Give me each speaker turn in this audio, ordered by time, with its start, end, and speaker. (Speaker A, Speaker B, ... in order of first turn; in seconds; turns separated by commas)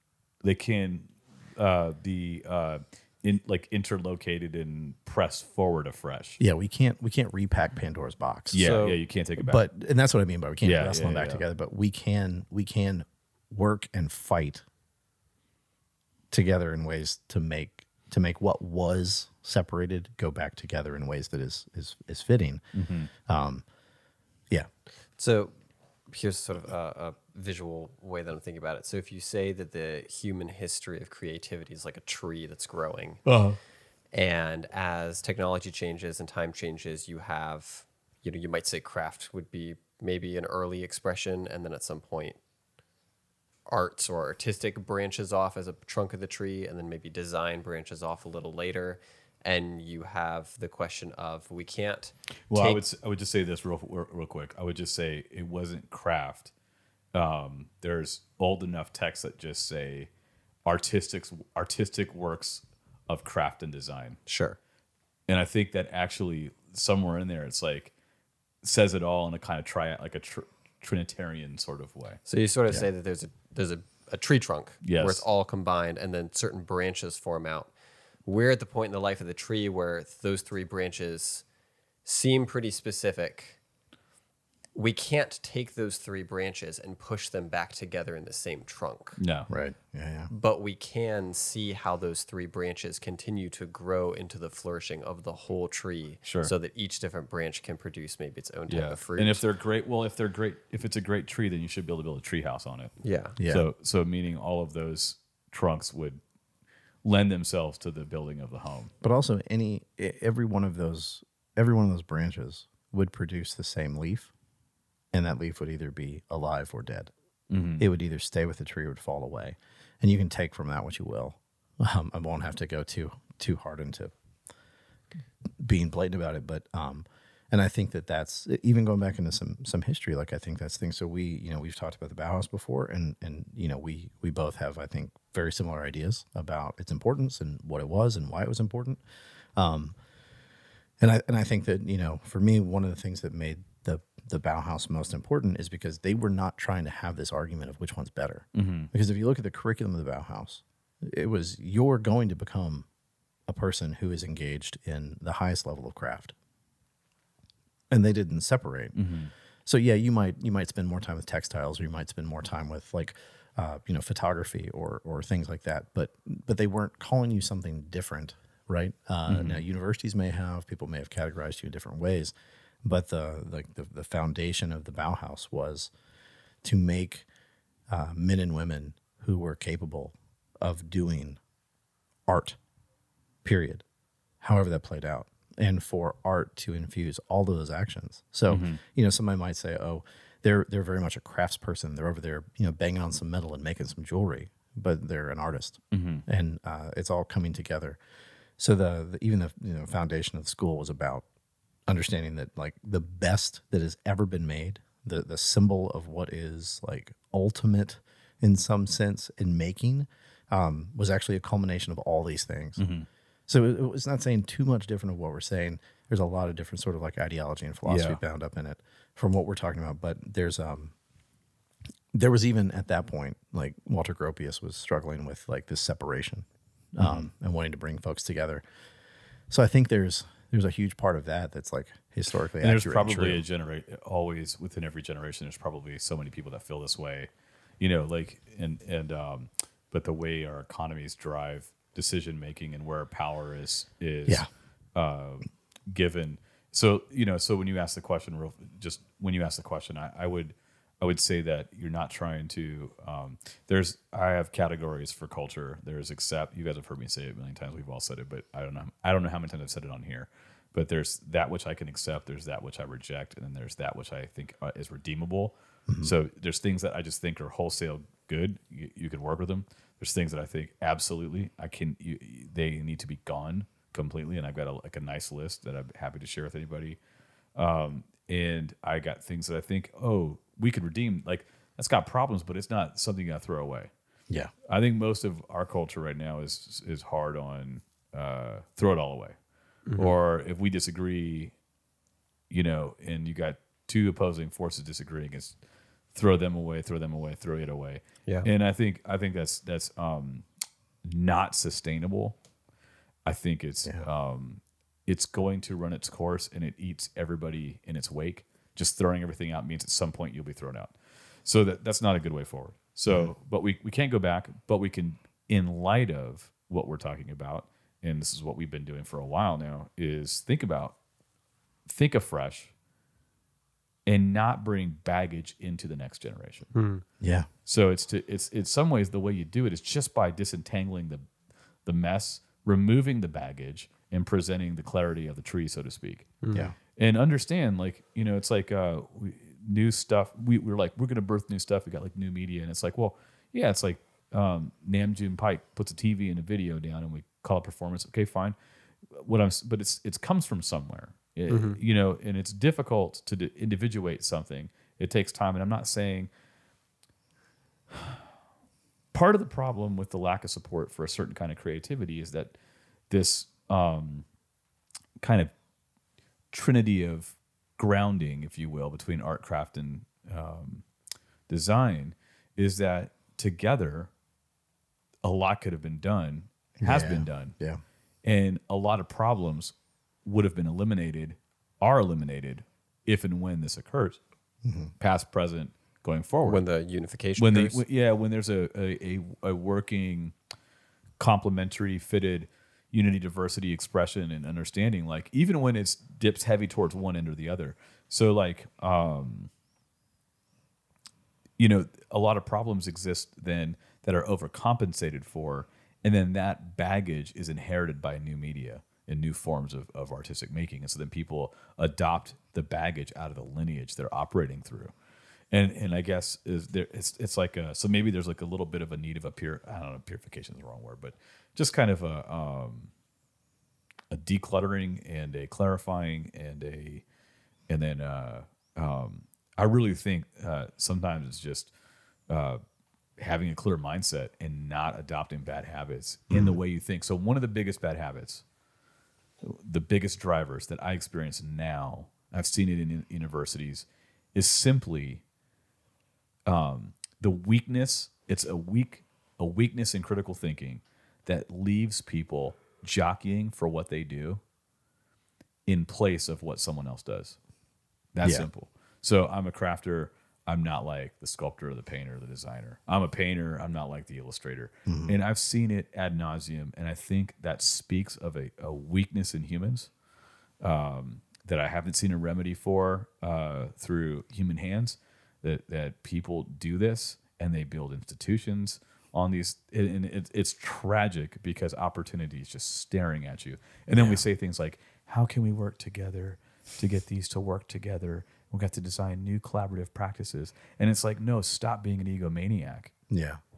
Speaker A: 0.4-6.4, Speaker B: 6.4-8.6, Speaker A: 8.5-9.6, Speaker C: 8.6-9.0, Speaker B: 9.4-14.6, Speaker A: 10.6-11.4, Speaker B: 16.3-22.6, Speaker A: 22.7-23.1, Speaker B: 23.2-23.6, Speaker C: 25.2-25.5, Speaker C: 26.1-33.2, Speaker A: 33.2-33.6, Speaker C: 34.1-42.4, Speaker C: 43.6-52.8, Speaker A: 52.5-56.5, Speaker A: 57.1-60.1, Speaker A: 60.6-64.2, Speaker C: 64.3-64.6, Speaker A: 65.3-67.9, Speaker A: 68.6-72.2, Speaker C: 72.3-77.7, Speaker A: 74.8-75.2, Speaker C: 78.2-81.4, Speaker C: 82.0-83.6, Speaker C: 84.7-89.2, Speaker A: 89.2-89.5, Speaker B: 89.5-90.3, Speaker C: 90.3-99.5, Speaker A: 96.2-96.5, Speaker A: 98.7-102.9, Speaker C: 103.0-103.4, Speaker B: 103.4-103.6, Speaker A: 103.5-106.2, Speaker A: 107.0-108.9, Speaker B: 109.0-114.3, Speaker B: 115.1-117.1, Speaker A: 117.5-117.9, Speaker B: 117.8-124.1, Speaker B: 125.6-139.0, Speaker B: 139.6-139.9, Speaker B: 141.0-152.9, Speaker A: 148.5-148.9, Speaker B: 153.5-156.3, Speaker B: 157.9-158.9, Speaker A: 158.9-159.3, Speaker B: 159.6-172.3, Speaker A: 169.3-169.6, Speaker B: 172.8-175.9, Speaker B: 176.6-177.3, Speaker B: 177.9-181.4, Speaker B: 182.3-182.6, Speaker B: 183.4-183.8, Speaker B: 184.4-198.0, Speaker A: 188.5-188.8, Speaker A: 195.9-196.2, Speaker B: 198.6-201.2, Speaker B: 201.9-212.9, Speaker A: 212.8-213.1, Speaker B: 213.5-220.9, Speaker A: 217.8-218.2, Speaker B: 222.1-228.6, Speaker A: 227.0-227.3, Speaker B: 229.5-233.4, Speaker A: 232.6-277.0, Speaker B: 265.9-266.1, Speaker A: 277.5-283.9, Speaker A: 284.7-289.4, Speaker C: 289.9-290.1, Speaker A: 290.0-291.5, Speaker A: 292.5-295.6, Speaker A: 296.1-300.4, Speaker A: 301.0-302.4, Speaker A: 303.2-321.0, Speaker B: 313.1-313.3, Speaker A: 321.9-322.7, Speaker A: 324.1-326.7, Speaker C: 326.7-327.0, Speaker B: 327.2-327.5, Speaker A: 327.6-331.2, Speaker A: 331.9-336.4, Speaker C: 336.4-336.7, Speaker A: 336.9-348.6, Speaker A: 349.1-356.3, Speaker C: 351.5-351.8, Speaker A: 357.9-358.2, Speaker A: 359.1-362.5, Speaker A: 363.1-364.2, Speaker A: 365.2-365.5, Speaker A: 366.5-370.8, Speaker A: 371.5-374.1, Speaker A: 375.2-377.5, Speaker B: 376.8-377.8, Speaker A: 378.2-384.2, Speaker B: 384.6-384.9, Speaker A: 385.0-386.6, Speaker C: 386.4-387.8, Speaker A: 387.4-390.3, Speaker A: 391.2-399.5, Speaker A: 401.6-414.9, Speaker A: 415.5-422.9, Speaker A: 424.1-427.0, Speaker A: 427.7-431.7, Speaker A: 432.3-432.6, Speaker A: 433.2-438.4, Speaker B: 436.3-436.6, Speaker A: 439.4-445.2, Speaker A: 446.4-454.4, Speaker A: 455.6-457.4, Speaker A: 458.1-469.9, Speaker B: 464.9-465.1, Speaker A: 470.6-492.9, Speaker B: 483.9-484.2, Speaker B: 493.1-493.4